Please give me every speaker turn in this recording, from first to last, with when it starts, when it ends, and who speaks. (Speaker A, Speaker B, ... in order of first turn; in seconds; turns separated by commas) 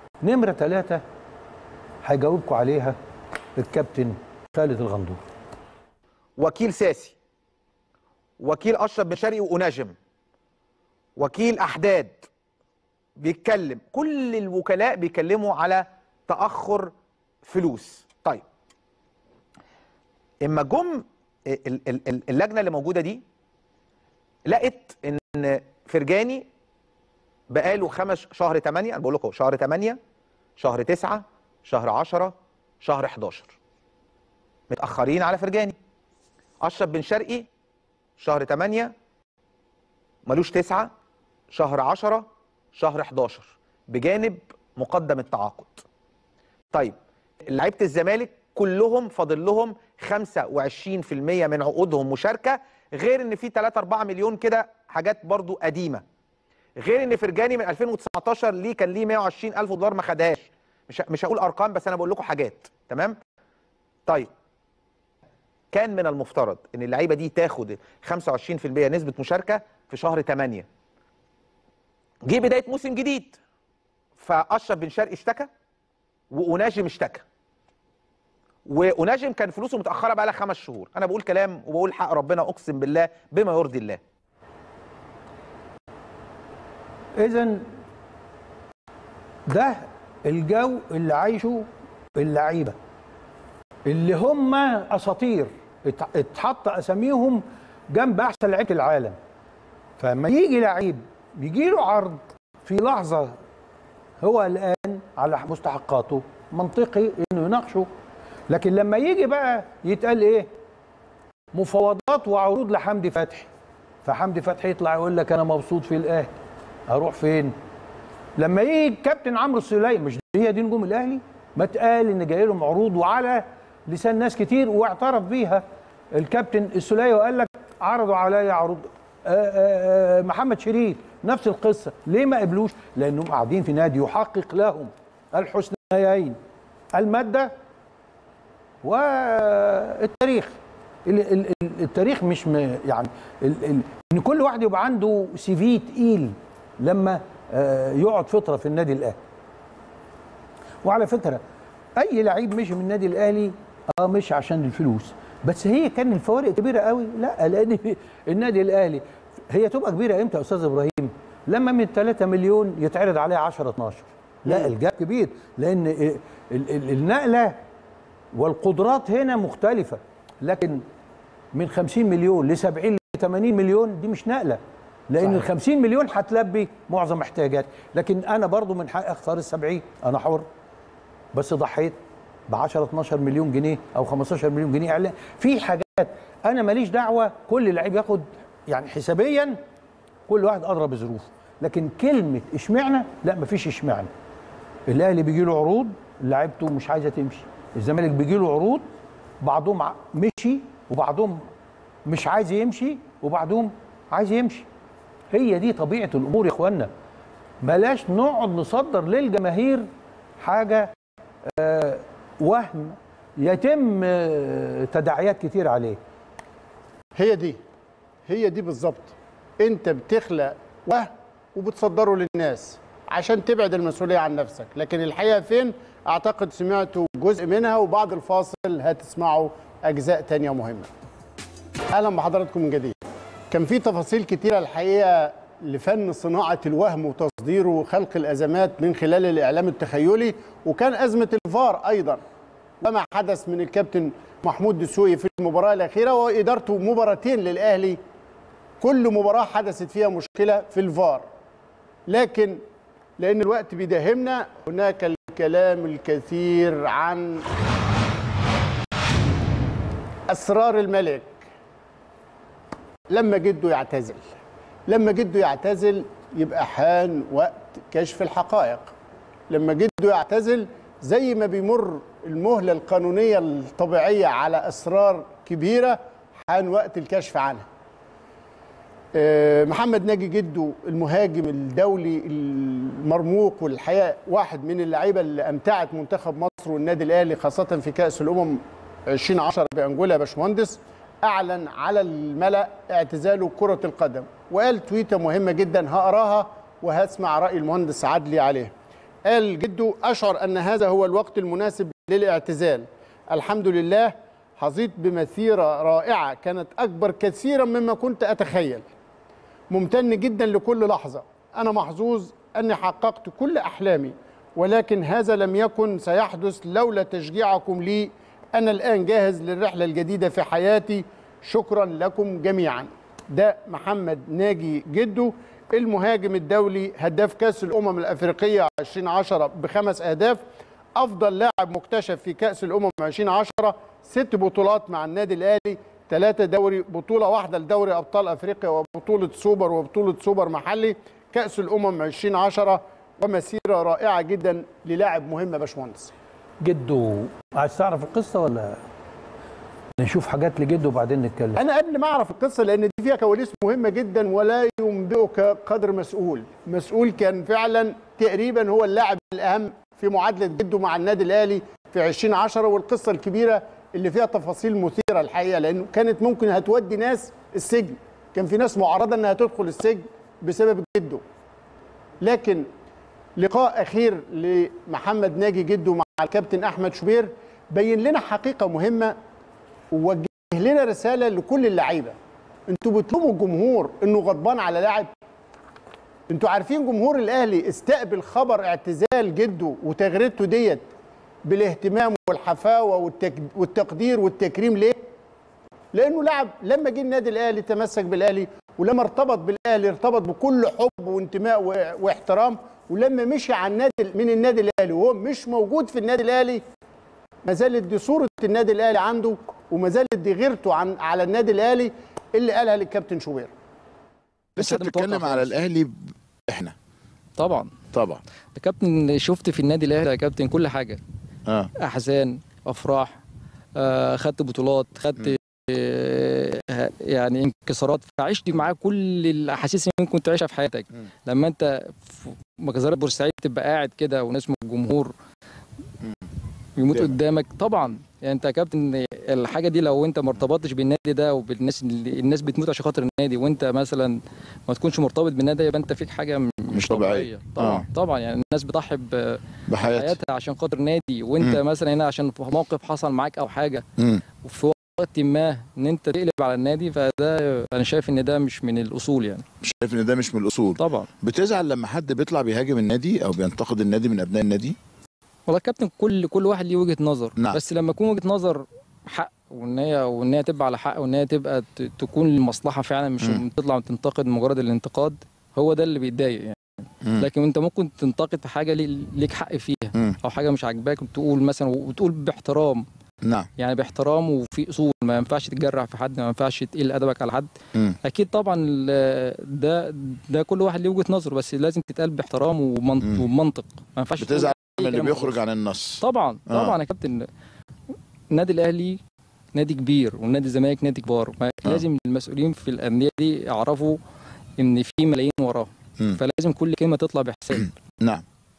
Speaker A: 0.2-1.0, Speaker A: 2.0-3.0, Speaker A: 3.6-5.2, Speaker B: 6.4-7.2, Speaker B: 8.4-10.0, Speaker B: 11.2-12.3, Speaker B: 13.2-16.9, Speaker B: 17.5-18.4, Speaker B: 20.4-23.2, Speaker B: 24.5-26.5, Speaker B: 27.5-30.0, Speaker B: 30.6-33.5, Speaker B: 34.7-35.8, Speaker B: 36.6-37.5, Speaker B: 38.2-38.9, Speaker B: 40.3-40.9, Speaker B: 41.5-45.8, Speaker B: 46.7-56.0, Speaker B: 56.8-63.2, Speaker B: 65.7-70.7, Speaker B: 72.2-73.4, Speaker B: 74.2-75.5, Speaker B: 76.3-77.2, Speaker B: 78.7-84.0, Speaker A: 87.2-87.6, Speaker A: 89.5-92.8, Speaker A: 93.9-99.2, Speaker A: 100.0-103.4, Speaker A: 104.2-107.9, Speaker A: 108.5-110.5, Speaker A: 111.5-113.5, Speaker A: 114.0-116.3, Speaker A: 116.9-117.5, Speaker A: 118.4-136.4, Speaker A: 136.9-137.5, Speaker A: 138.8-140.6, Speaker A: 141.1-149.2, Speaker A: 150.8-151.4, Speaker A: 152.0-167.6, Speaker C: 164.5-164.7, Speaker A: 168.3-170.8, Speaker A: 171.5-180.5, Speaker A: 181.3-182.0, Speaker A: 182.5-189.6, Speaker A: 190.3-194.1, Speaker A: 194.9-198.9, Speaker A: 199.4-201.4, Speaker A: 202.1-204.7, Speaker A: 205.3-206.9, Speaker A: 207.6-209.9, Speaker A: 210.4-210.9, Speaker A: 211.5-216.0, Speaker C: 217.2-217.6, Speaker C: 218.3-230.9, Speaker C: 231.9-233.0, Speaker C: 233.5-242.2, Speaker C: 242.8-248.0, Speaker C: 248.8-251.3, Speaker C: 252.1-252.6, Speaker C: 253.2-257.4, Speaker C: 260.3-261.5, Speaker C: 263.1-264.2, Speaker C: 264.9-268.9, Speaker C: 269.5-277.7, Speaker C: 279.1-298.7, Speaker C: 299.2-308.9, Speaker C: 309.7-330.4, Speaker C: 331.0-346.1, Speaker A: 346.6-348.8, Speaker A: 350.0-351.6, Speaker C: 351.6-371.2, Speaker C: 372.2-372.7, Speaker C: 373.4-379.2, Speaker C: 379.9-382.2, Speaker C: 382.7-385.1, Speaker C: 386.3-390.9, Speaker C: 391.4-395.0, Speaker C: 395.9-406.6, Speaker C: 407.4-413.5, Speaker D: 414.6-415.5, Speaker E: 414.6-416.0, Speaker E: 416.5-416.7, Speaker D: 417.4-417.7, Speaker E: 417.9-418.2, Speaker D: 418.6-421.0, Speaker D: 421.8-423.2, Speaker D: 423.8-435.1, Speaker D: 436.8-444.2, Speaker D: 444.7-453.9, Speaker E: 446.7-447.9, Speaker E: 449.7-450.1, Speaker D: 454.4-459.5, Speaker E: 459.6-464.8, Speaker D: 460.8-461.1, Speaker D: 465.5-476.6, Speaker D: 477.2-482.9, Speaker E: 483.2-483.5, Speaker D: 483.6-487.5, Speaker D: 488.0-495.4, Speaker E: 494.2-496.7, Speaker D: 496.0-497.3, Speaker D: 498.3-499.0, Speaker D: 499.6-504.0, Speaker D: 504.6-507.7